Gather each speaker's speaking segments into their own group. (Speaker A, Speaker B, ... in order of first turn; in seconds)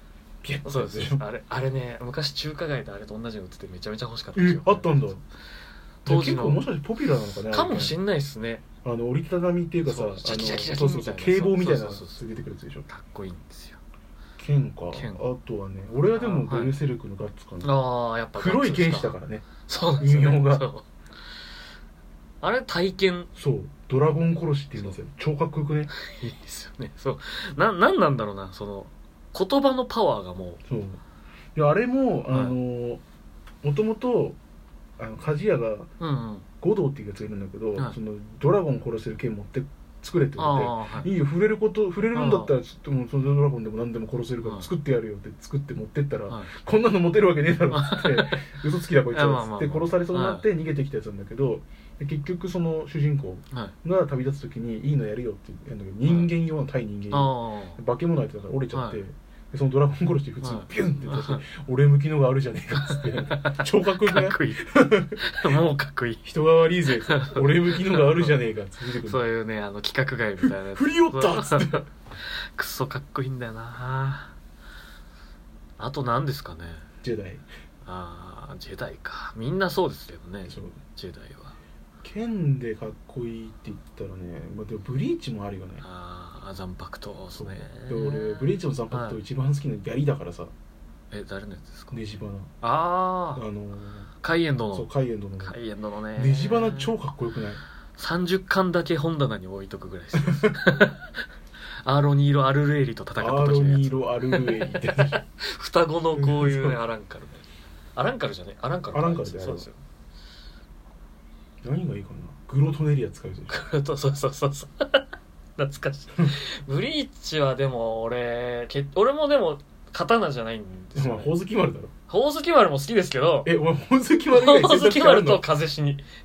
Speaker A: 0.4-1.2, 4.3-5.2, 6.0-8.0, 8.8-12.9, 14.4-17.7, 18.3-19.5, 20.0-20.7, 23.4-25.9, 30.7-31.0, 31.5-33.0, 33.6-34.4, 35.0-35.9, 36.6-65.2, 66.2-69.2, 70.4-71.8, 77.0-77.5, 80.5-80.8, 82.0-85.8, 87.3-90.5, 91.9-92.5, 93.3-94.1, 94.7-95.6, 96.1-97.6, 103.2-105.2, 106.1-106.8, 108.9-109.7, 111.6-113.5, 120.9-121.9, 123.4-125.5
Speaker B: 0.6-5.1, 6.0-6.7, 7.5-8.6, 9.8-12.2, 12.9-13.8, 14.9-15.2, 16.1-16.7, 17.6-20.9, 22.4-23.3, 25.9-30.6, 32.3-32.6, 36.0-36.5, 40.4-41.1, 42.1-42.5, 44.4-44.7, 47.7-48.6, 49.1-50.5, 57.1-57.8, 58.7-59.0, 60.4-61.4, 62.9-66.2, 67.0-68.3, 68.9-74.3, 75.8-76.8, 77.8-81.5, 85.8-89.2, 91.1-92.0, 92.6-93.4, 94.2-94.9, 95.4-96.9, 98.0-101.2, 101.8-107.4, 107.9-109.8, 113.5-121.3, 122.1-123.5, 124.3-126.0